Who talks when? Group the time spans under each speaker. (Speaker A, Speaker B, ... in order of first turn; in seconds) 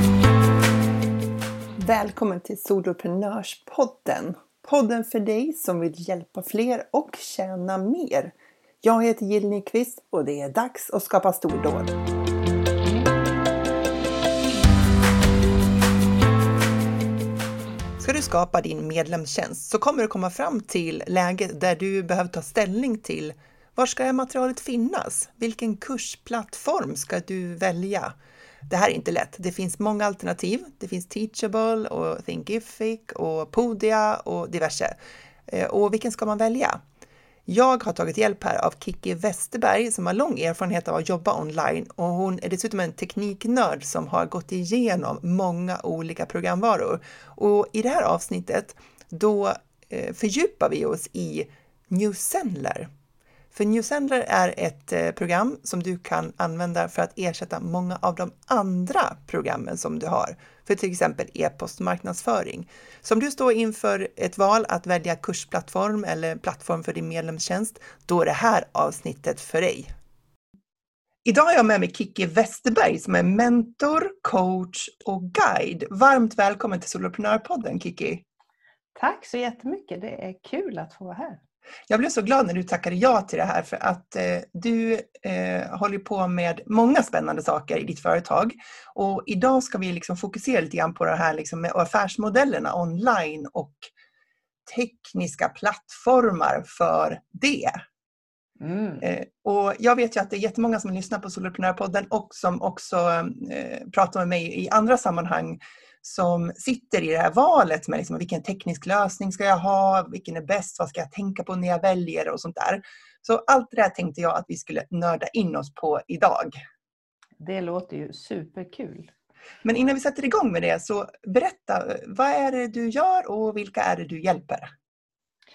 Speaker A: 1.8-11.9, 18.0-28.1, 28.7-35.0, 35.5-36.8, 37.5-52.9, 53.5-69.9, 71.2-78.2, 81.9-93.9, 94.7-97.8, 99.0-116.6, 119.6-124.7
Speaker B: 78.9-81.4, 98.6-99.0, 117.4-119.1